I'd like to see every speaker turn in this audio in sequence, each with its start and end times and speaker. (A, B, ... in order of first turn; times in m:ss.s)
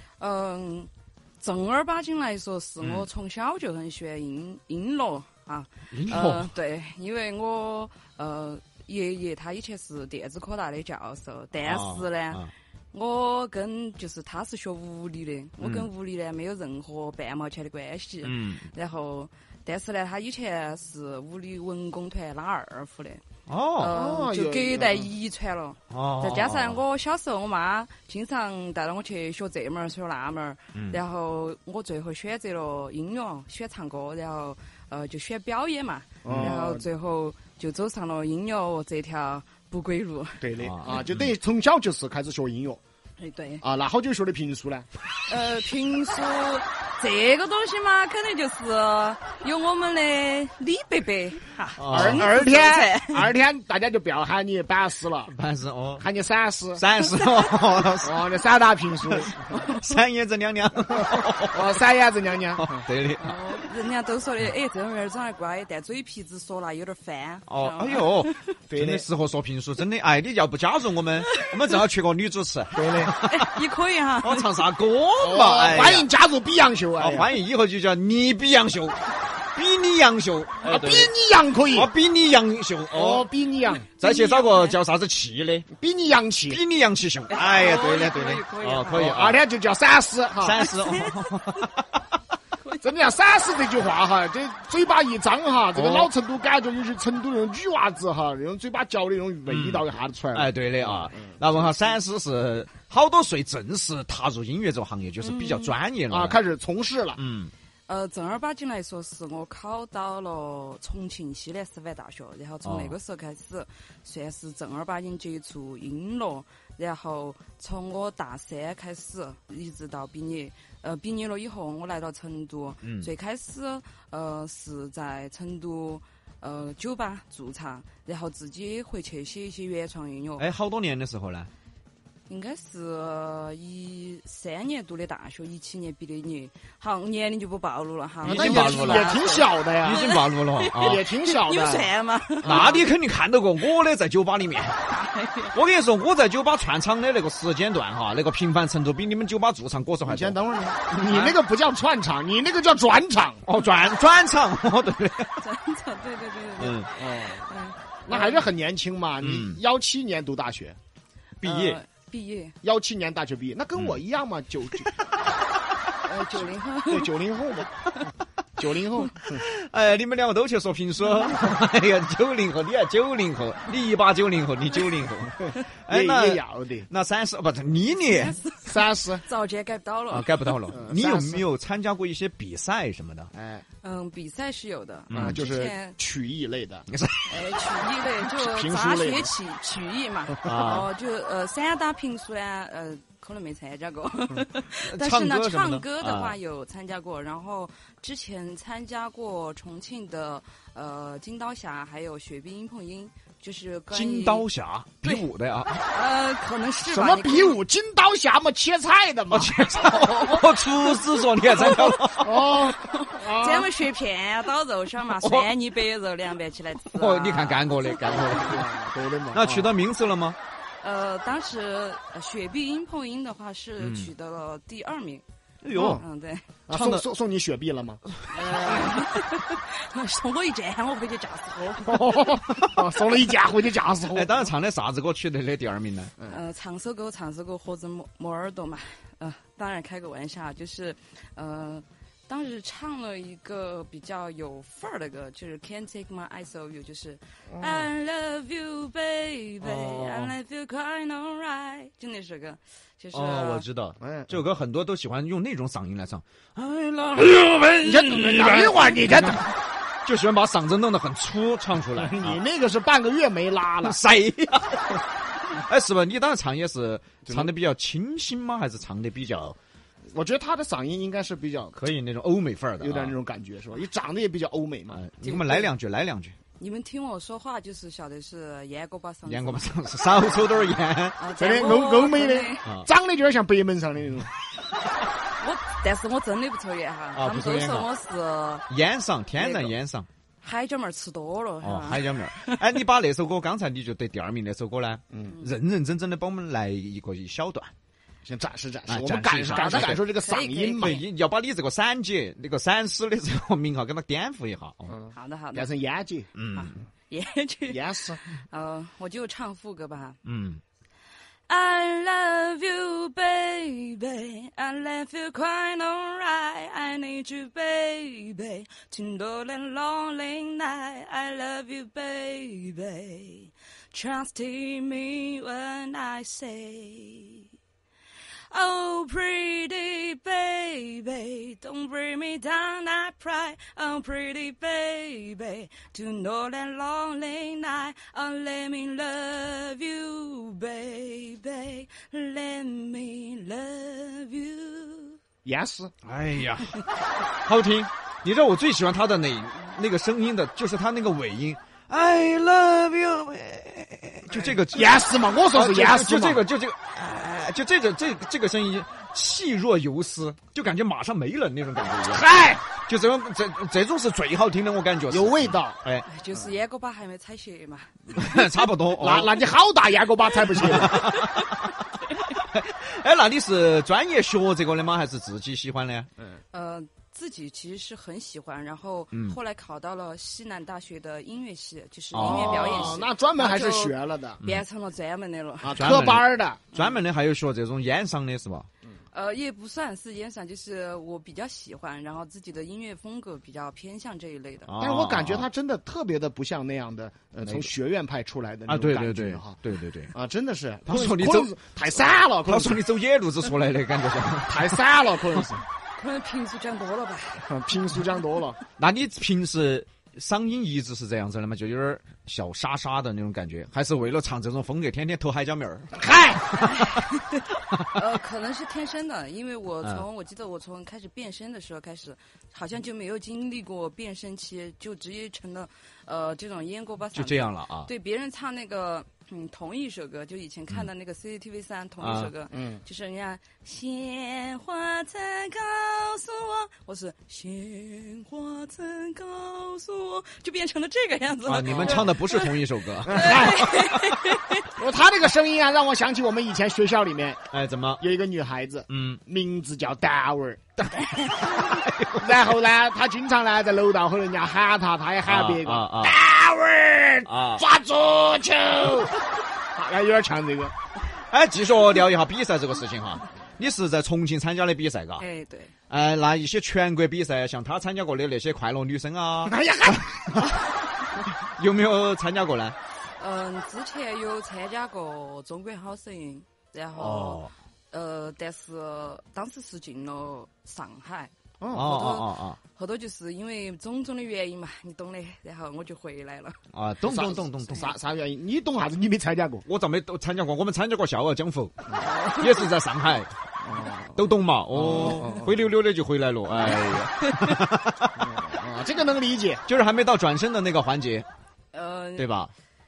0:00.2-0:23.2 A
0:02.8-0:03.0 B
0:05.9-0:06.5 B
0:11.6-0:12.5 B
0:15.6-0:15.9 B
0:18.2-0:18.7 B
0:23.5-0:24.0 B
0:23.8-0:40.5 A
0:23.9-0:25.1 C
0:25.9-0:26.8 B
0:36.2-0:36.9 C
0:36.2-0:36.6 B
0:40.4-0:42.8 C
0:40.6-0:41.2 B
0:43.2-0:43.6 A
0:43.6-0:44.9 C
0:45.3-0:53.3 A
0:51.8-0:52.3 B
0:51.9-0:55.3 C
0:55.3-0:56.0 B
0:56.0-0:56.8 C
0:56.8-0:58.2 B
0:57.0-0:57.8 A
0:58.0-0:59.4 C
0:59.1-1:01.7 B
0:59.5-0:59.9 A
1:01.5-1:02.8 C
1:02.6-1:03.4 B
1:03.2-1:08.5 A
1:07.5-1:13.5 B
1:08.7-1:09.0 C
1:12.7-1:13.1 C
1:13.2-1:14.6 A
1:14.2-1:16.1 B
1:15.2-1:17.3 C
1:17.0-1:21.1 B
1:20.6-1:21.9 C
1:21.7-1:23.3 B
1:22.9-1:23.9 C
1:23.9-1:24.8 A
1:24.0-1:25.7 B
1:25.7-1:26.6 C
1:26.5-1:29.4 B
1:27.3-1:29.2 A
1:28.9-1:30.7 C
1:30.4-1:32.0 B
1:30.6-1:31.7 A
1:32.6-1:32.8 A
1:32.8-1:41.4 C
1:35.7-1:36.1 B
1:39.5-1:46.4 B
1:45.2-1:45.7 A
1:46.1-1:47.2 C
1:47.2-1:47.5 B
1:47.9-2:10.4 A
1:52.6-1:53.0 B
2:02.8-2:03.1 B
2:10.4-2:11.5 B
2:12.3-2:22.9 A
2:18.2-2:19.2 B
2:18.2-2:20.1 C
2:19.8-2:21.0 B
2:20.7-2:21.9 C
2:22.4-2:22.7 C
2:22.4-2:24.8 B
2:24.8-2:25.6 A
2:25.5-2:30.3 B
2:30.0-2:33.4 C
2:31.0-2:31.4 B
2:33.4-2:35.4 B
2:35.3-2:38.5 A
2:36.6-2:36.9 B
2:37.1-2:37.3 C
2:38.1-2:40.8 C
2:39.2-2:39.6 B
2:41.4-2:41.8 B
2:41.4-2:42.6 A
2:42.6-2:44.9 C
2:44.8-2:45.2 B
2:46.0-2:47.1 A
2:46.9-2:47.7 C
2:48.6-2:49.4 C
2:49.2-2:58.4 B
2:55.9-2:56.9 C
2:58.1-3:00.5 A
2:58.6-2:59.2 C
3:00.1-3:03.3 B
3:00.7-3:01.4 C
3:03.3-3:03.6 C
3:03.8-3:06.0 A
3:05.1-3:05.4 B
3:05.1-3:06.9 C
3:06.9-3:07.4 B
3:07.3-3:24.5 A
3:08.3-3:09.3 C
3:10.4-3:10.9 B
3:14.7-3:16.4 B
3:23.9-3:25.9 B
3:25.0-3:25.3 A
3:25.8-3:27.6 A
3:26.8-3:29.5 C
3:29.3-3:32.4 B
3:29.6-3:38.2 A
3:32.2-3:33.7 C
3:35.1-3:35.5 B
3:36.8-3:38.7 B
3:38.0-3:39.7 C
3:39.3-3:40.4 B
3:40.8-3:45.2 A
3:43.8-3:44.1 B
3:45.6-3:46.0 B
3:45.7-3:46.0 C
3:45.9-3:46.6 A
3:46.7-3:48.8 C
3:46.7-3:47.0 B
3:48.3-3:52.4 A
3:51.9-3:54.5 C
3:54.1-3:56.1 B
3:56.2-4:13.7 A
4:07.5-4:07.9 C
4:09.6-4:10.3 B
4:13.1-4:19.4 B
4:14.0-4:14.3 C
4:17.8-4:19.4 C
4:20.0-4:22.4 B
4:22.0-4:24.0 C
4:23.8-4:29.6 B
4:30.1-4:31.8 C
4:31.7-4:33.1 B
4:32.8-4:35.0 C
4:34.9-4:36.3 B
4:35.2-4:35.7 A
4:36.6-4:39.7 A
4:39.2-4:41.2 B
4:41.2-4:42.7 A
4:41.4-4:44.3 C
4:45.2-4:48.7 A
4:47.1-4:47.9 B
4:48.7-4:50.1 B
4:49.3-4:49.8 A
4:50.4-4:52.6 A
4:51.6-4:57.7 B
4:58.2-5:01.0 C
4:58.9-5:00.0 B
4:59.5-5:01.0 A
5:00.7-5:04.9 B
5:04.9-5:06.3 C
5:05.1-5:05.7 A
5:06.3-5:06.8 B
5:06.5-5:10.2 A
5:07.7-5:08.2 C
5:10.2-5:10.6 B
5:11.5-5:27.5 A
5:28.5-5:45.2 A
5:45.4-5:45.9 C
5:46.0-5:46.8 B
5:47.3-6:06.0 B
5:54.3-5:56.4 C
6:02.0-6:02.6 C
6:05.1-6:05.8 C
6:06.0-6:08.4 A
6:08.1-6:09.4 B
6:08.9-6:11.0 C
6:10.6-6:16.1 B
6:11.0-6:11.7 A
6:16.5-6:25.8 A
6:22.1-6:23.0 B
6:22.2-6:24.4 C
6:25.6-6:26.6 C
6:25.8-6:28.7 B
6:26.7-6:27.0 A
6:29.1-6:34.7 A
6:34.7-6:35.4 B
6:34.8-6:39.6 C
6:37.4-6:37.7 B
6:38.7-6:40.1 B
6:40.1-6:42.8 C
6:40.8-6:41.5 B
6:42.4-6:44.8 B
6:44.5-6:45.6 C
6:46.0-6:47.5 A
6:47.4-6:48.6 C
6:48.8-6:57.0 B
6:56.0-6:56.4 C
6:56.5-7:24.8 A
7:07.1-7:07.9 B
7:12.0-7:12.3 B
7:12.5-7:12.8 C
7:21.4-7:23.5 B
7:21.6-7:22.0 C
7:23.0-7:23.9 C
7:24.8-7:27.4 C
7:27.5-7:28.0 B
7:28.0-7:30.6 C
7:28.9-7:29.2 B
7:30.8-7:31.8 A
7:31.2-7:32.4 B
7:32.2-7:39.2 C
7:35.2-7:36.2 B
7:37.2-7:37.6 B
7:39.7-7:40.7 C
7:41.3-7:45.2 B
7:45.2-7:45.7 A
7:45.9-7:50.6 B
7:49.4-7:50.3 C
7:51.1-7:52.8 B
7:53.2-8:01.3 A
7:57.0-7:57.5 B
8:01.6-8:02.2 C
8:01.7-8:02.6 B
8:01.9-8:06.6 A
8:06.7-8:07.9 B
8:07.0-8:09.6 C
8:09.6-8:13.3 B
8:12.0-8:12.7 A
8:13.6-8:14.2 C
8:14.1-8:18.2 B
8:14.7-8:15.5 C
8:16.6-8:17.6 A
8:18.2-8:19.6 C
8:19.7-8:21.3 B
8:21.7-8:22.3 A
8:22.2-8:22.5 B